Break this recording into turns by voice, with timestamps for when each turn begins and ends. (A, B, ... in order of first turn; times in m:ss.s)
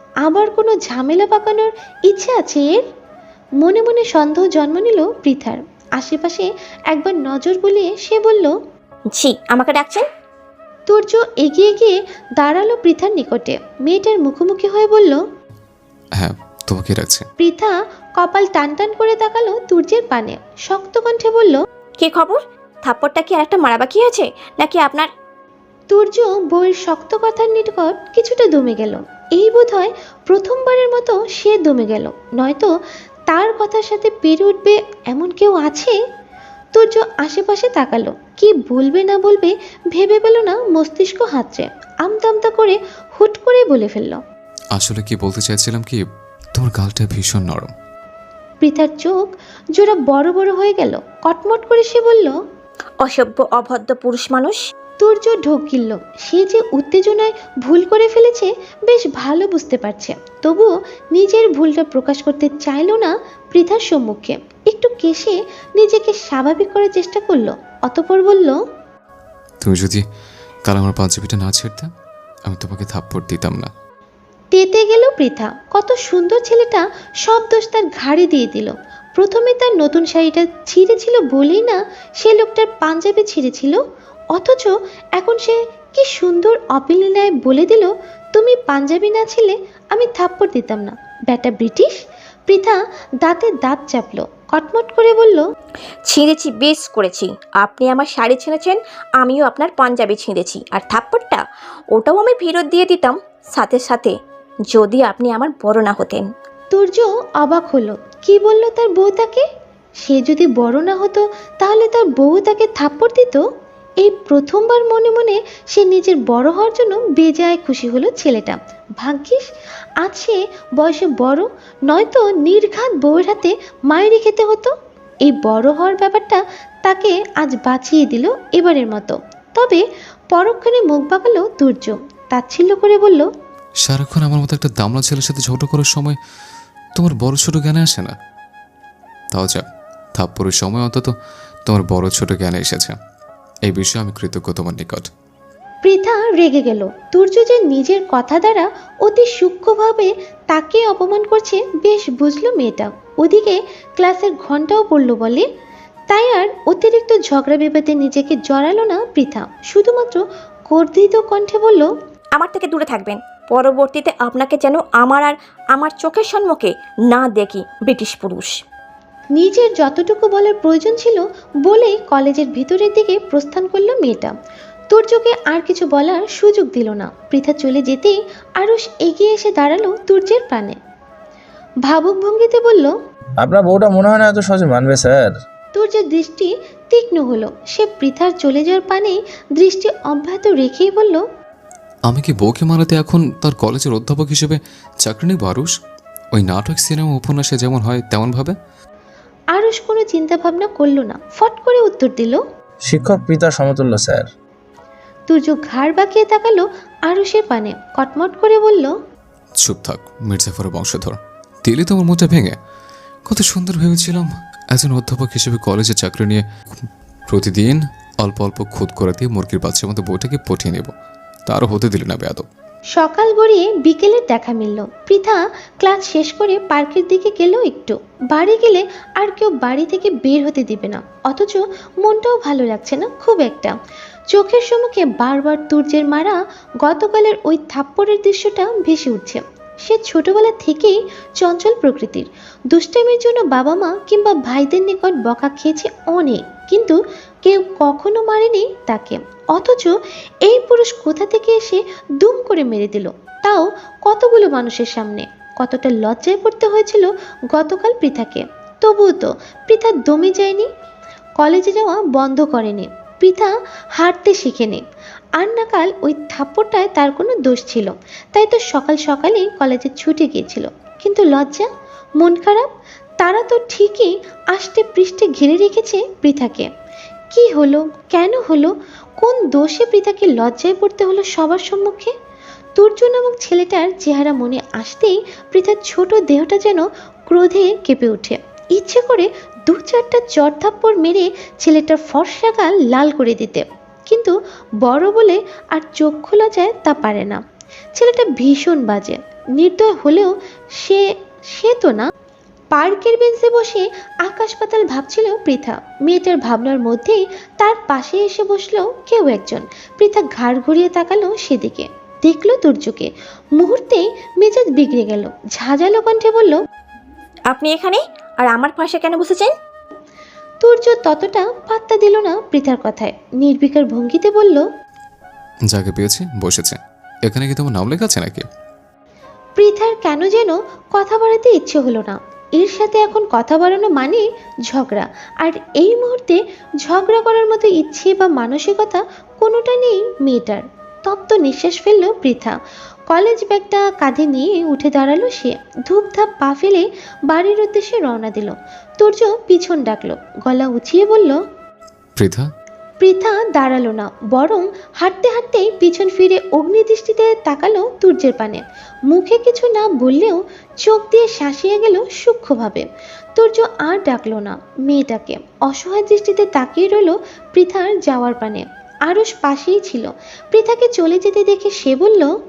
0:00.2-0:02.8 A
0:03.6-0:08.5 A
0:09.1-0:10.1 B
0:10.9-0:15.2 A
0:16.2-0:17.3 C
0:17.4-0:21.6 A
0:22.0-0:25.1 B
0:25.9-0:32.7 A
0:33.3-0:36.0 A
0:36.7-0:44.2 A
0:44.8-0:47.7 C
0:48.6-0:52.4 A
0:53.0-0:54.6 B
0:55.0-1:08.6 A
1:09.6-1:10.0 C
1:10.7-1:11.9 C
1:12.5-1:13.7 C
1:14.5-1:23.8 A
1:24.3-1:35.5 A
1:36.1-1:41.4 B
1:41.9-1:44.2 B
1:44.7-1:46.3 B
1:46.7-1:49.5 A
1:50.0-1:53.4 A
1:54.0-1:59.5 A
2:00.0-2:04.7 A
2:05.3-2:13.3 A
2:13.8-2:16.2 C
2:17.0-2:18.2 C
2:19.3-2:21.1 C
2:21.7-2:23.0 C
2:23.7-2:25.1 C
2:25.8-2:35.5 A
2:36.1-2:41.9 A
2:42.4-2:48.5 B
2:49.4-2:54.3 A
2:54.9-3:00.8 A
3:01.9-3:02.9 A
3:03.4-3:05.4 D
3:05.8-3:11.2 A
3:12.1-3:15.7 C
3:16.3-3:18.6 C
3:19.5-3:22.4 A
3:22.9-3:24.3 D
3:25.3-3:28.9 A
3:29.6-3:32.6 C
3:33.3-3:40.9 C
3:41.5-3:42.4 C
3:43.0-3:53.8 A
3:54.3-4:09.9 A
4:10.4-4:20.7 A
4:21.4-4:24.8 A
4:25.4-4:32.7 A
4:33.2-4:36.7 A
4:37.3-4:42.1 A
4:42.8-4:57.4 A
4:58.0-5:02.1 A
5:02.7-5:16.6 A
5:17.5-5:19.5 B
5:20.6-5:24.7 A
5:25.7-5:28.5 C
5:29.6-5:42.6 A
5:43.1-5:51.4 A
5:52.2-5:52.5 C
5:53.0-6:12.3 A